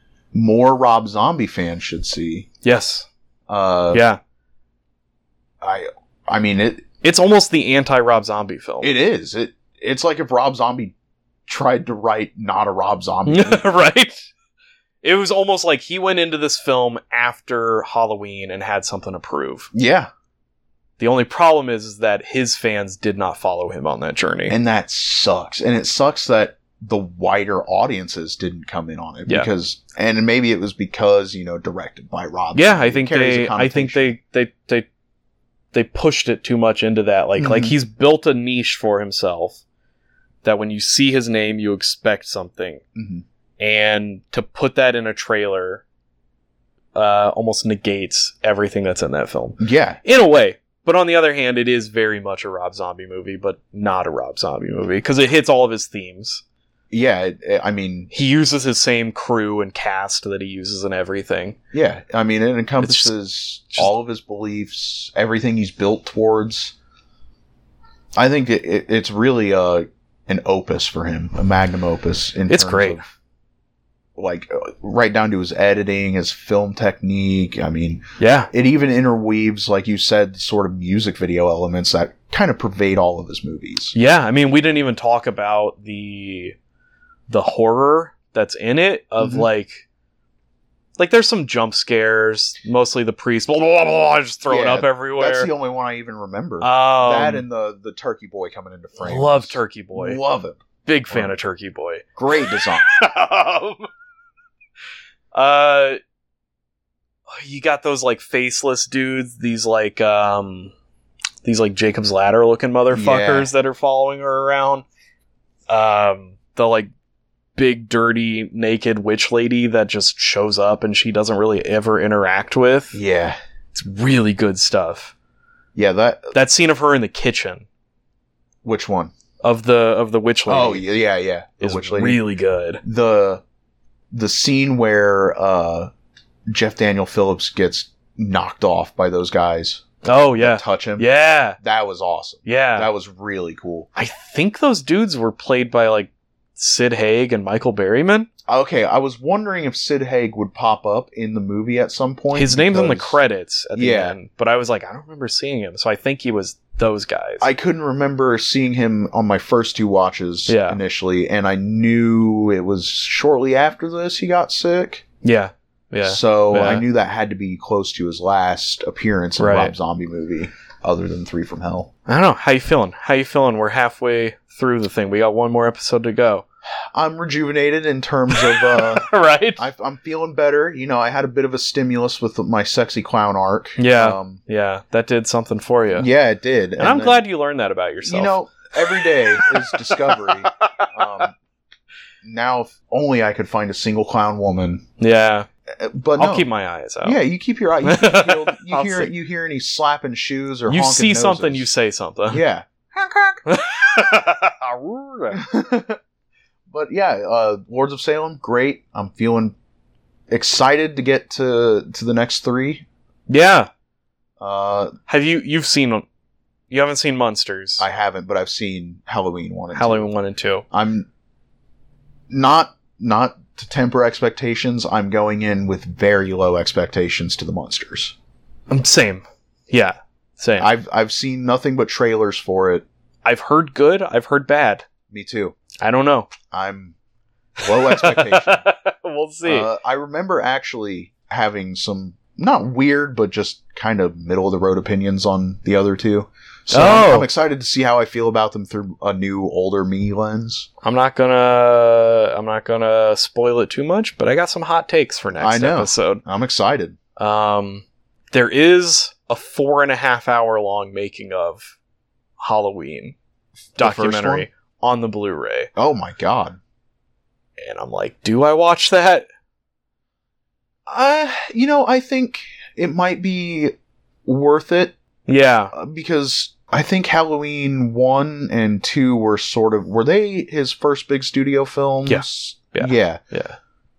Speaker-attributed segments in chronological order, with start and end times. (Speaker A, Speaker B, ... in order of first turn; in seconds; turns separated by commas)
Speaker A: 0.3-2.5, Speaker B: 2.6-3.1, Speaker A: 3.5-4.0, Speaker B: 3.9-4.2, Speaker A: 5.6-6.8, Speaker B: 7.0-8.9, Speaker A: 8.8-10.9, Speaker A: 11.5-13.7, Speaker B: 13.3-14.3, Speaker B: 15.0-19.7, Speaker A: 19.7-20.1, Speaker B: 21.0-24.6, Speaker A: 24.5-34.2, Speaker B: 32.5-34.9, Speaker B: 35.7-39.6, Speaker A: 37.4-37.8, Speaker B: 40.4-42.8, Speaker A: 43.0-43.2, Speaker B: 43.6-45.8, Speaker B: 46.9-56.4, Speaker A: 49.6-50.0, Speaker A: 56.9-58.1, Speaker B: 58.1-61.6, Speaker A: 61.7-66.7, Speaker B: 62.8-63.1, Speaker A: 68.2-73.1, Speaker B: 72.5-73.0, Speaker A: 74.2-84.0, Speaker B: 78.2-78.5, Speaker B: 83.9-86.6, Speaker B: 87.3-89.8, Speaker A: 89.2-89.5, Speaker B: 91.0-95.5, Speaker A: 94.5-101.4, Speaker B: 96.6-97.5, Speaker B: 99.0-100.2, Speaker B: 100.9-102.0, Speaker A: 102.2-102.9, Speaker B: 102.9-103.9, Speaker B: 105.3-106.0, Speaker B: 107.3-110.7, Speaker B: 111.4-114.8, Speaker A: 112.9-113.5, Speaker B: 115.7-116.9, Speaker B: 117.6-123.0, Speaker A: 122.9-123.4, Speaker B: 123.7-125.1, Speaker A: 125.8-126.3, Speaker B: 126.3-127.7, Speaker A: 128.6-129.1, Speaker B: 129.4-130.9, Speaker A: 130.5-132.2, Speaker B: 131.6-132.8, Speaker A: 132.8-133.4, Speaker A: 134.1-135.9, Speaker A: 136.5-139.9, Speaker B: 140.0-141.6, Speaker A: 140.4-141.1, Speaker A: 141.6-143.9, Speaker B: 142.4-142.9, Speaker B: 143.9-148.3, Speaker A: 148.5-153.2, Speaker B: 152.3-157.5, Speaker A: 153.8-154.2, Speaker A: 157.4-165.0, Speaker B: 160.5-160.8, Speaker B: 165.2-166.9, Speaker A: 166.1-171.9, Speaker B: 169.4-169.7, Speaker B: 172.1-176.4, Speaker A: 176.9-184.4, Speaker B: 178.3-179.7, Speaker B: 183.8-186.1, Speaker A: 185.9-187.2, Speaker B: 186.8-190.9, Speaker A: 188.1-191.3, Speaker A: 192.2-194.8, Speaker B: 195.0-195.5, Speaker A: 195.7-196.4, Speaker B: 196.2-197.2, Speaker A: 197.0-201.7, Speaker B: 197.8-199.1, Speaker B: 200.7-202.4, Speaker A: 202.3-203.4, Speaker B: 203.5-205.4, Speaker A: 205.3-206.0, Speaker A: 206.7-209.6, Speaker A: 210.3-212.9, Speaker B: 213.3-213.7, Speaker A: 214.4-214.9, Speaker B: 215.1-216.1, Speaker B: 216.7-217.8, Speaker A: 217.8-220.1, Speaker B: 219.7-220.7, Speaker A: 220.7-221.1, Speaker A: 222.3-228.2, Speaker B: 228.7-230.7, Speaker A: 230.6-232.8, Speaker B: 233.2-234.9, Speaker A: 235.1-235.6, Speaker B: 235.8-236.3, Speaker A: 236.5-236.9, Speaker A: 237.6-238.7, Speaker B: 237.6-239.7, Speaker A: 239.4-250.7, Speaker B: 246.7-247.3, Speaker B: 250.8-256.2, Speaker A: 255.4-257.0, Speaker B: 257.2-261.7, Speaker B: 262.4-263.1, Speaker A: 263.7-264.5, Speaker B: 263.8-265.7, Speaker A: 265.8-266.6, Speaker B: 267.6-269.3, Speaker A: 270.9-274.9, Speaker B: 275.3-275.7, Speaker A: 275.7-283.2, Speaker B: 282.1-283.6